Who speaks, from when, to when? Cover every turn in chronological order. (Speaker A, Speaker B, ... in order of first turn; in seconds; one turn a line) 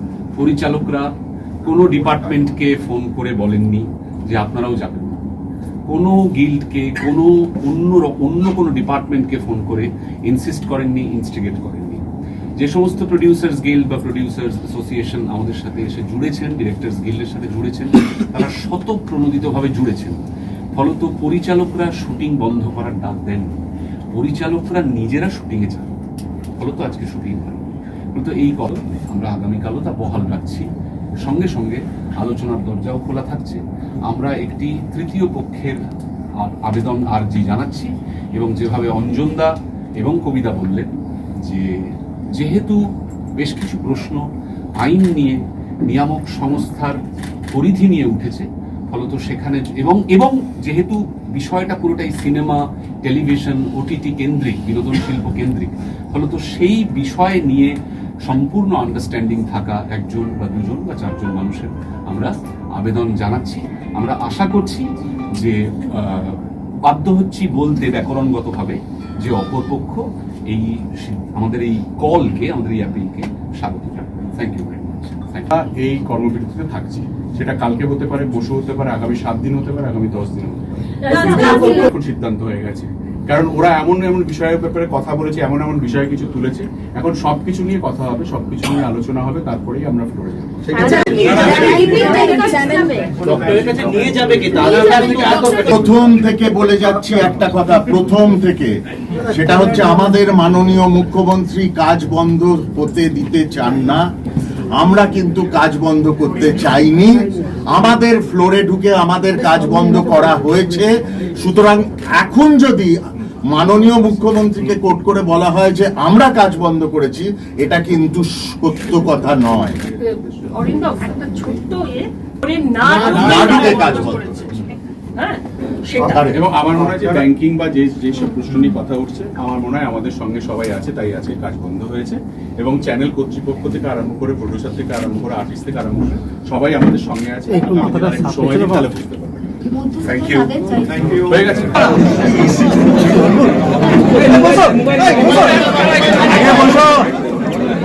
Speaker A: 0.3-1.1
Speaker A: 1.6-5.2
Speaker A: 5.9-12.0
Speaker A: 12.6-20.2
Speaker A: 20.7-23.6
Speaker A: 24.1-25.9
Speaker A: 26.6-30.6
Speaker A: 31.2-35.8
Speaker A: 36.4-40.9
Speaker A: 41.4-42.8
Speaker A: 43.4-44.2
Speaker A: 44.8-47.0
Speaker A: 47.5-57.7
Speaker A: 58.2-64.8
Speaker A: 65.4-75.5
Speaker B: 75.5-90.8
Speaker C: 81.0-81.9
Speaker C: 90.7-93.4
Speaker D: 90.8-92.9
Speaker E: 90.9-91.8
Speaker E: 93.2-95.7
Speaker C: 94.5-95.7
Speaker F: 95.7-104.1
Speaker F: 104.8-112.9
Speaker F: 113.5-119.8
Speaker C: 120.0-126.3
Speaker F: 122.9-124.3
Speaker B: 123.1-124.1
Speaker F: 125.9-126.3
Speaker B: 126.3-139.6
Speaker C: 128.2-128.7
Speaker D: 139.7-141.1
Speaker B: 141.3-142.5
Speaker F: 146.3-146.7